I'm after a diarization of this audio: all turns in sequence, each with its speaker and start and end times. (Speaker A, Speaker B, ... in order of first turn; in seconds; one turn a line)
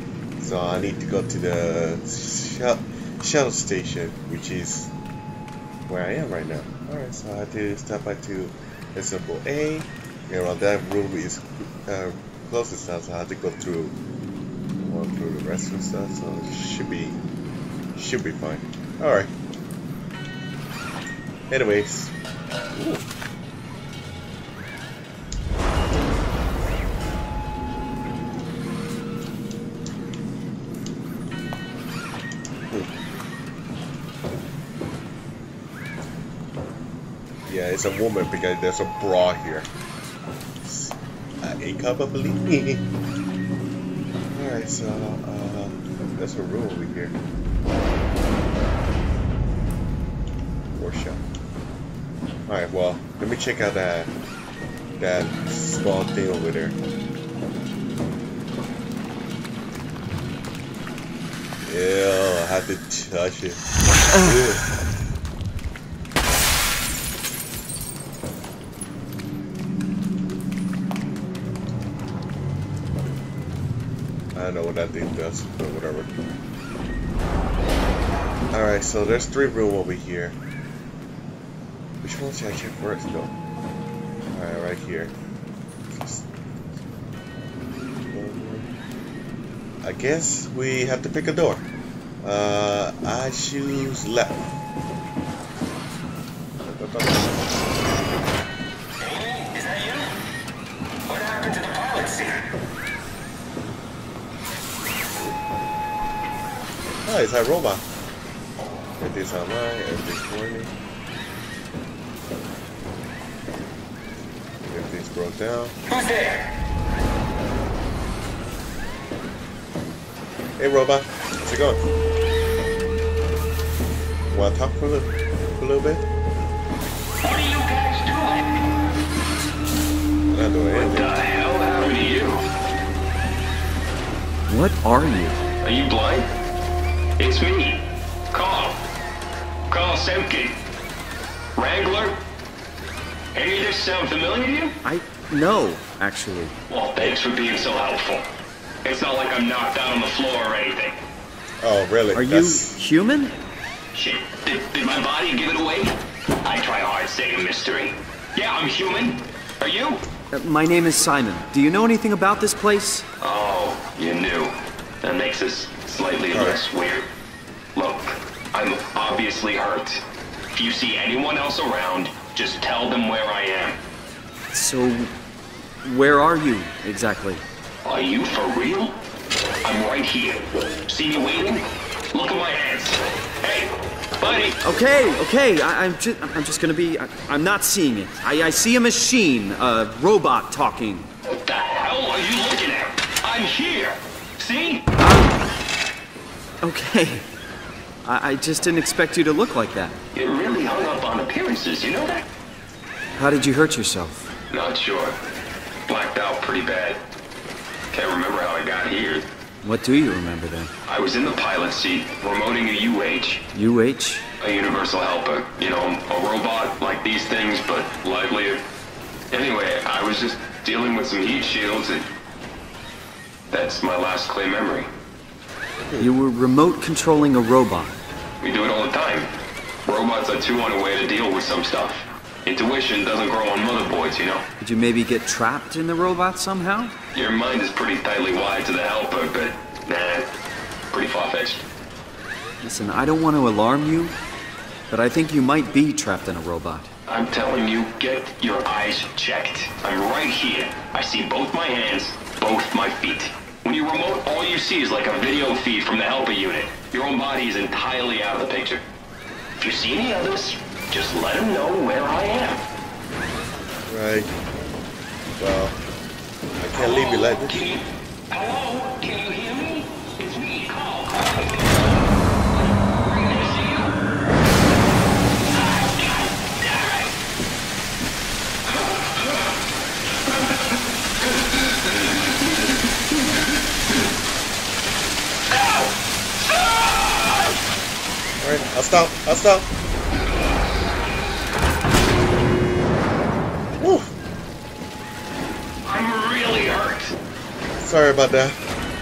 Speaker A: 0.4-4.9
Speaker A: 5.9-14.0
Speaker A: 14.8-17.2
Speaker A: 17.9-19.3
Speaker A: 21.5-22.1
Speaker A: 22.7-23.1
Speaker A: 37.5-39.7
Speaker A: 40.6-42.9
Speaker A: 44.3-47.2
Speaker A: 50.8-51.2
Speaker A: 52.5-54.1
Speaker A: 55.0-56.8
Speaker A: 61.6-64.7
Speaker A: 74.3-76.1
Speaker A: 78.5-80.4
Speaker A: 82.0-83.3
Speaker A: 84.3-85.1
Speaker A: 85.9-86.8
Speaker A: 87.6-88.7
Speaker A: 89.8-91.7
Speaker A: 92.2-94.6
Speaker A: 96.6-97.4
Speaker B: 99.0-100.1
Speaker B: 101.1-102.3
Speaker A: 107.0-107.8
Speaker A: 109.0-110.7
Speaker A: 114.7-115.8
Speaker A: 120.6-121.8
Speaker A: 124.3-126.0
Speaker B: 127.2-128.5
Speaker A: 130.3-131.1
Speaker B: 130.7-132.4
Speaker C: 134.5-135.4
Speaker B: 135.6-136.3
Speaker B: 137.2-138.8
Speaker B: 139.7-140.6
Speaker B: 141.6-142.2
Speaker B: 143.3-144.8
Speaker C: 144.8-146.5
Speaker B: 146.7-148.3
Speaker B: 148.8-151.0
Speaker A: 151.6-152.8
Speaker C: 152.2-153.3
Speaker B: 153.9-160.0
Speaker C: 160.3-163.1
Speaker B: 163.2-167.1
Speaker A: 166.3-166.6
Speaker B: 167.8-173.8
Speaker C: 174.5-175.1
Speaker C: 175.8-177.4
Speaker B: 177.8-179.0
Speaker B: 179.6-184.6
Speaker C: 184.6-191.1
Speaker B: 191.3-194.9
Speaker C: 195.0-195.4
Speaker C: 196.6-197.3
Speaker C: 198.0-200.0
Speaker B: 200.1-202.3
Speaker C: 203.2-204.3
Speaker B: 204.5-205.2
Speaker B: 205.9-207.0
Speaker B: 207.9-209.3
Speaker C: 209.6-210.7
Speaker B: 210.9-213.5
Speaker C: 213.5-214.3
Speaker B: 214.4-218.6
Speaker B: 219.3-222.1
Speaker B: 223.5-224.9
Speaker A: 225.8-226.1
Speaker C: 226.0-228.0
Speaker B: 228.4-229.3
Speaker B: 229.8-234.5
Speaker C: 234.6-237.0
Speaker B: 237.1-240.3
Speaker B: 240.9-241.7
Speaker C: 242.6-244.2
Speaker C: 244.9-246.9
Speaker B: 247.1-258.9
Speaker B: 259.6-262.6
Speaker A: 263.9-264.3
Speaker A: 265.4-265.8
Speaker A: 266.6-267.7
Speaker B: 266.8-272.1
Speaker B: 272.8-274.0
Speaker B: 275.5-277.1
Speaker B: 278.7-279.4
Speaker B: 285.5-287.6
Speaker A: 288.4-289.7
Speaker A: 293.8-294.1
Speaker B: 295.8-297.1
Speaker A: 297.8-298.6